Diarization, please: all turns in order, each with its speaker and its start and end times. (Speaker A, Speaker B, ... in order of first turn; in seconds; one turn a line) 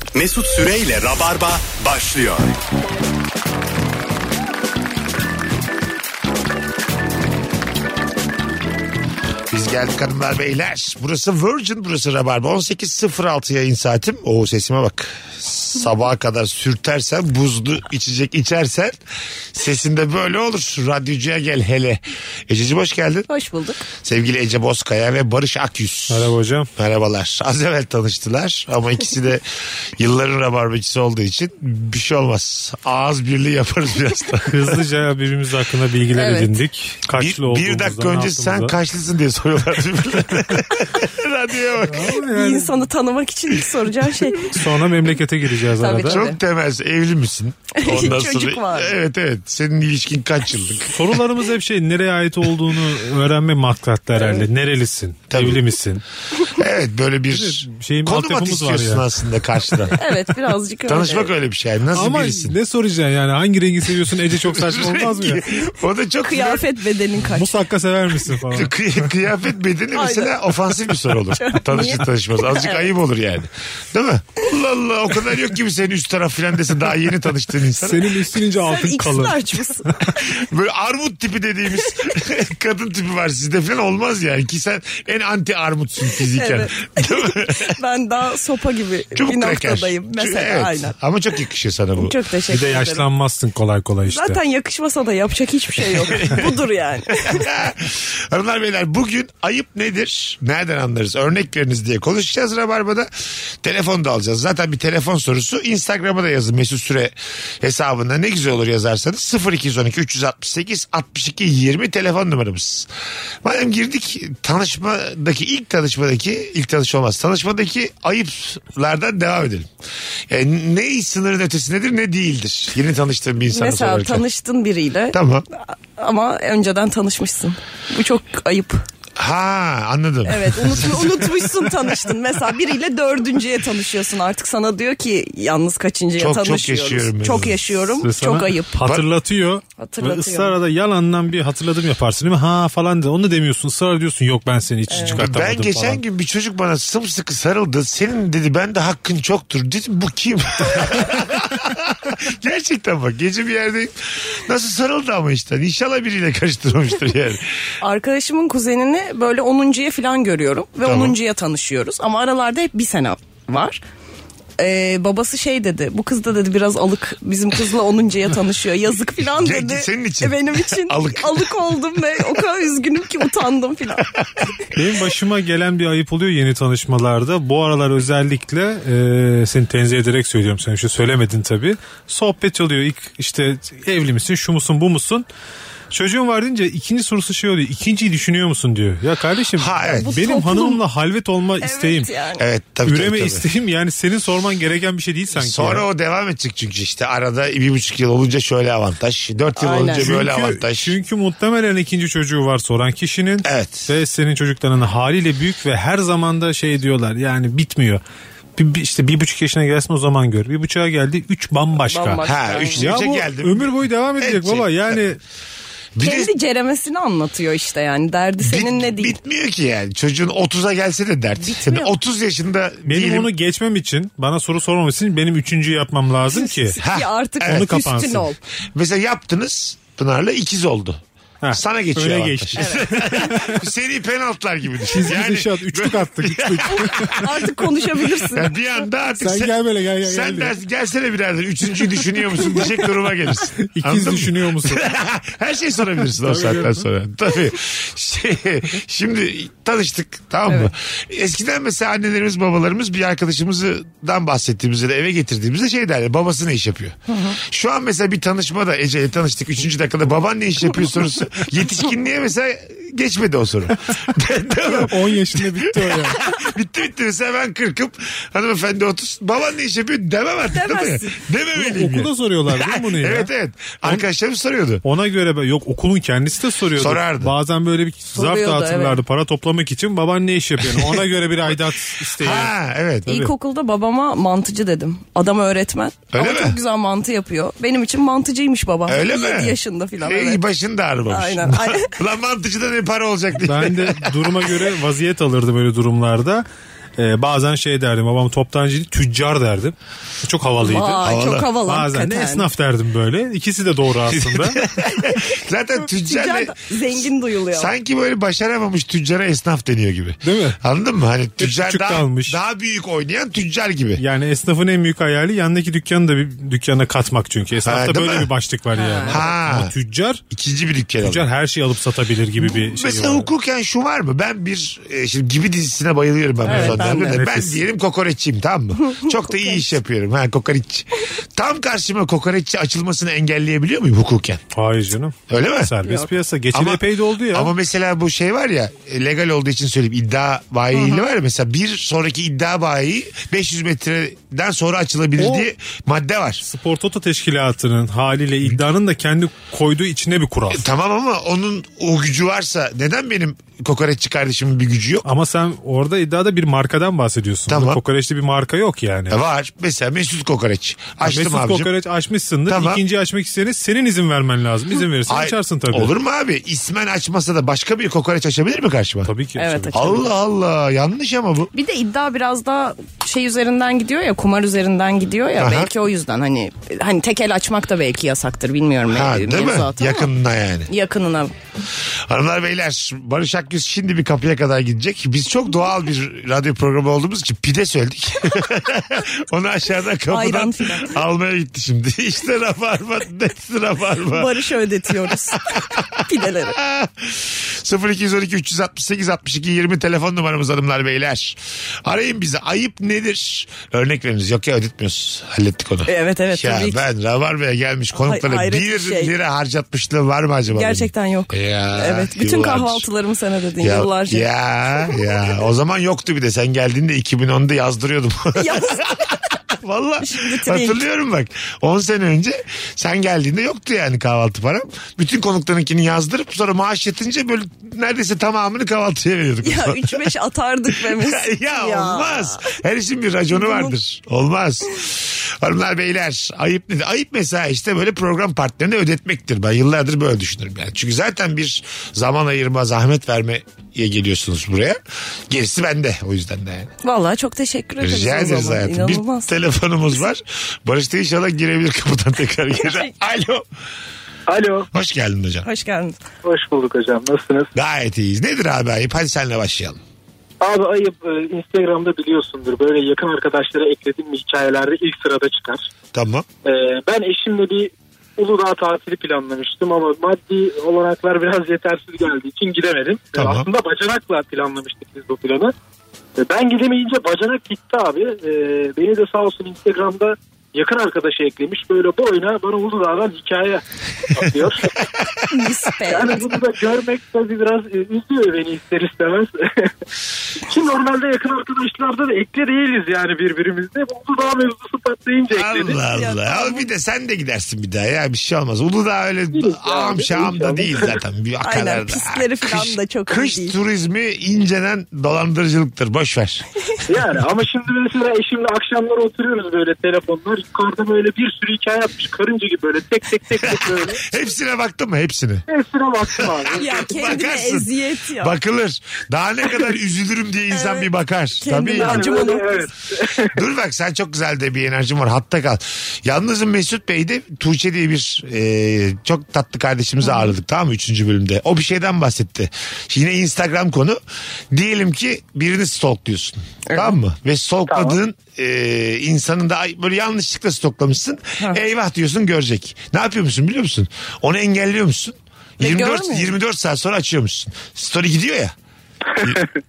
Speaker A: 0.1-2.5
Speaker B: 9.5-19.0
Speaker B: 19.5-23.3
Speaker C: 23.3-23.9
Speaker B: 24.0-29.4
Speaker D: 26.1-26.7
Speaker B: 30.0-34.8
Speaker D: 34.5-38.7
Speaker C: 36.1-36.5
Speaker B: 37.2-42.2
Speaker D: 41.9-42.9
Speaker C: 42.3-44.5
Speaker D: 44.4-46.2
Speaker C: 45.8-46.4
Speaker B: 46.1-51.2
Speaker C: 47.7-49.0
Speaker D: 50.9-56.0
Speaker B: 55.3-55.6
Speaker B: 56.5-59.9
Speaker D: 57.3-59.1
Speaker C: 60.0-61.3
Speaker B: 60.9-62.6
Speaker D: 61.9-65.5
Speaker B: 64.3-66.7
Speaker C: 66.2-67.5
Speaker D: 67.2-68.8
Speaker B: 68.5-78.1
Speaker C: 69.9-70.6
Speaker C: 71.3-72.9
Speaker D: 77.8-79.6
Speaker C: 78.6-79.9
Speaker B: 80.1-87.7
Speaker C: 86.3-90.9
Speaker B: 89.1-92.1
Speaker C: 92.0-93.1
Speaker D: 92.5-94.4
Speaker C: 94.1-97.5
Speaker B: 96.2-96.4
Speaker B: 97.2-103.1
Speaker B: 103.6-112.9
Speaker B: 113.4-119.7
Speaker B: 120.3-124.2
Speaker C: 123.5-128.8
Speaker B: 125.1-125.4
Speaker B: 129.2-131.2
Speaker C: 130.2-138.8
Speaker B: 136.2-137.5
Speaker D: 138.0-146.0
Speaker C: 139.8-140.5
Speaker C: 144.9-145.2
Speaker B: 145.0-157.5
Speaker C: 157.8-163.8
Speaker B: 160.8-161.2
Speaker C: 164.6-174.1
Speaker B: 169.4-171.5
Speaker D: 174.7-185.2
Speaker D: 185.9-192.1
Speaker B: 189.6-190.1
Speaker C: 189.8-190.8
Speaker C: 191.6-192.5
Speaker B: 192.4-193.4
Speaker D: 192.8-195.8
Speaker B: 195.3-200.9
Speaker C: 199.6-200.1
Speaker D: 199.9-208.0
Speaker B: 203.4-203.9
Speaker D: 208.6-212.2
Speaker C: 211.9-212.9
Speaker B: 212.2-215.0
Speaker D: 212.8-215.2
Speaker B: 216.0-216.3
Speaker C: 216.0-219.2
Speaker B: 218.4-223.3
Speaker C: 221.4-221.9
Speaker D: 222.8-226.8
Speaker C: 226.3-228.4
Speaker B: 226.8-227.7
Speaker D: 227.5-228.2
Speaker B: 228.7-231.0
Speaker D: 231.4-233.7
Speaker B: 231.5-237.2
Speaker C: 232.6-233.1
Speaker D: 234.9-237.4
Speaker C: 236.7-238.5
Speaker B: 238.3-274.8
Speaker D: 239.2-240.6
Speaker D: 243.7-244.9
Speaker D: 246.2-246.8
Speaker C: 257.1-257.4
Speaker D: 264.6-266.2
Speaker C: 270.5-271.2
Speaker D: 271.6-273.3
Speaker D: 274.8-282.5
Speaker B: 276.8-277.3
Speaker C: 278.1-279.0
Speaker B: 280.6-281.0
Speaker B: 282.2-283.1
Speaker D: 283.1-283.3
Speaker C: 283.1-290.4
Speaker B: 286.1-286.6
Speaker B: 288.9-294.3
Speaker C: 291.1-291.9
Speaker D: 293.4-296.4
Speaker D: 297.0-301.0
Speaker C: 300.6-302.4
Speaker B: 301.0-301.5
Speaker D: 301.6-304.6
Speaker B: 304.1-314.0
Speaker C: 305.9-307.7
Speaker D: 310.2-310.6
Speaker D: 311.4-312.4
Speaker D: 314.0-320.2
Speaker B: 317.6-318.3
Speaker C: 318.8-319.2
Speaker B: 319.1-319.7
Speaker B: 320.3-321.2
Speaker D: 321.0-323.3
Speaker B: 322.4-334.4
Speaker C: 326.4-327.2
Speaker D: 326.4-327.6
Speaker C: 328.9-329.6
Speaker D: 334.5-337.5
Speaker B: 335.3-335.7
Speaker C: 335.8-336.1
Speaker B: 336.5-346.4
Speaker C: 340.7-341.1
Speaker D: 345.2-345.5
Speaker D: 346.4-350.6
Speaker B: 350.5-355.1
Speaker D: 355.1-359.2
Speaker B: 357.5-357.8
Speaker B: 359.1-361.7
Speaker D: 361.0-365.9
Speaker B: 362.5-362.8
Speaker B: 365.1-369.1
Speaker D: 369.1-369.8
Speaker C: 369.4-370.0
Speaker B: 369.7-371.5
Speaker C: 371.5-380.1
Speaker B: 375.4-375.7
Speaker B: 378.9-380.7
Speaker C: 380.7-381.3
Speaker B: 382.1-394.3
Speaker C: 390.1-391.0
Speaker C: 394.1-396.6
Speaker B: 395.6-395.8
Speaker B: 396.5-412.9
Speaker C: 405.9-406.8
Speaker C: 407.9-409.1
Speaker C: 410.5-414.3
Speaker B: 413.6-430.1
Speaker C: 418.4-418.9
Speaker C: 420.0-420.8
Speaker C: 429.4-432.6
Speaker B: 430.8-446.7
Speaker C: 433.3-433.8
Speaker C: 446.8-449.3
Speaker B: 447.8-453.4
Speaker C: 452.6-452.9
Speaker E: 454.3-454.7
Speaker B: 454.7-455.4
Speaker C: 455.4-455.9
Speaker E: 456.2-457.5
Speaker B: 457.6-459.8
Speaker E: 460.4-465.6
Speaker B: 465.9-466.2
Speaker E: 466.4-475.5
Speaker B: 473.1-473.4
Speaker E: 476.2-483.6
Speaker E: 484.1-484.7
Speaker C: 485.3-486.3
Speaker E: 485.9-489.7
Speaker E: 490.4-495.6
Speaker B: 495.3-506.4
Speaker C: 495.6-496.7
Speaker E: 499.3-500.9
Speaker C: 501.4-503.5
Speaker E: 506.9-514.0
Speaker B: 513.4-515.5
Speaker E: 515.5-516.6
Speaker B: 516.2-522.2
Speaker C: 516.5-518.4
Speaker C: 520.5-520.9
Speaker C: 521.4-522.7
Speaker E: 521.8-523.3
Speaker B: 523.3-534.0
Speaker B: 534.5-548.5
Speaker C: 536.7-537.0
Speaker C: 545.6-546.3